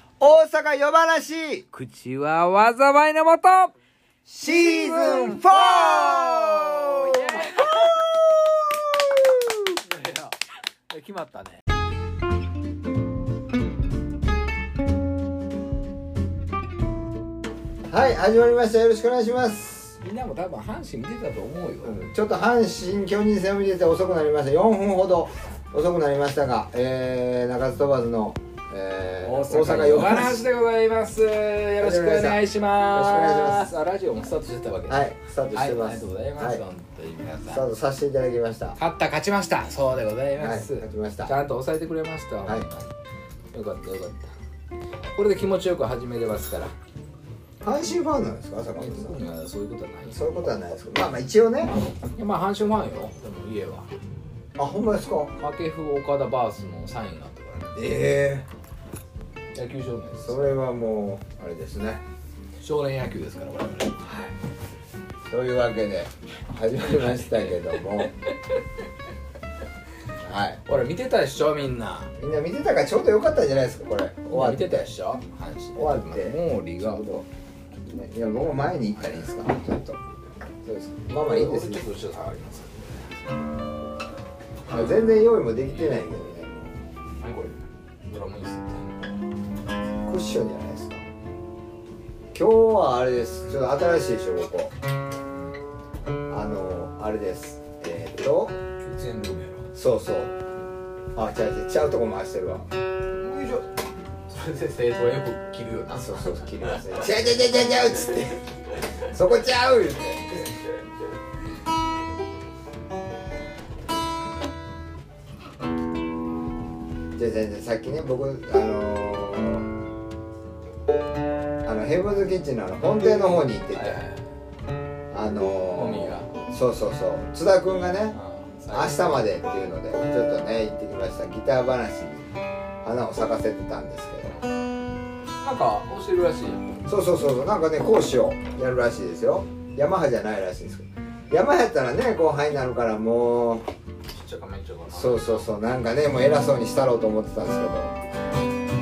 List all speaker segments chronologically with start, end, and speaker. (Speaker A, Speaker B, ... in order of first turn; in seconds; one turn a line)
Speaker A: 0.2-1.6
Speaker B: 1.7-3.7
Speaker B: 4.3-8.0
Speaker A: 4.4-9.6
Speaker B: 9.7-10.4
Speaker B: 10.9-11.6
Speaker A: 17.9-20.0
Speaker B: 20.0-22.0
Speaker A: 21.8-30.5
Speaker B: 29.2-37.6
Speaker A: 31.8-33.7
Speaker A: 34.9-36.6
Speaker A: 37.5-38.8
Speaker B: 38.8-42.9
Speaker A: 40.4-41.3
Speaker B: 43.5-44.3
Speaker B: 45.1-46.7
Speaker A: 47.6-49.1
Speaker B: 48.8-50.2
Speaker A: 50.1-51.7
Speaker B: 52.2-53.9
Speaker A: 54.5-55.3
Speaker B: 55.4-57.8
Speaker A: 57.8-58.5
Speaker B: 59.5-60.5
Speaker A: 60.2-62.0
Speaker B: 62.6-64.0
Speaker A: 64.0-64.3
Speaker A: 65.3-68.1
Speaker A: 70.2-70.6
Speaker B: 70.7-72.1
Speaker A: 72.2-74.9
Speaker B: 74.3-77.0
Speaker A: 75.8-77.3
Speaker A: 77.8-82.2
Speaker B: 79.0-79.3
Speaker B: 81.1-83.2
Speaker A: 84.7-86.7
Speaker B: 84.7-85.0
Speaker B: 85.7-86.0
Speaker B: 87.2-89.1
Speaker A: 90.1-91.0
Speaker A: 92.3-94.7
Speaker A: 96.3-98.5
Speaker B: 98.7-99.7
Speaker A: 99.7-100.4
Speaker A: 101.1-102.7
Speaker B: 103.2-103.7
Speaker B: 104.3-106.8
Speaker A: 105.9-108.5
Speaker A: 109.0-110.5
Speaker A: 117.1-119.7
Speaker A: 121.6-124.0
Speaker B: 123.7-124.3
Speaker A: 125.1-128.2
Speaker B: 125.7-126.3
Speaker B: 128.1-129.3
Speaker A: 128.7-132.3
Speaker A: 132.8-134.3
Speaker B: 135.4-136.8
Speaker A: 136.8-143.7
Speaker B: 144.1-145.5
Speaker A: 144.9-147.9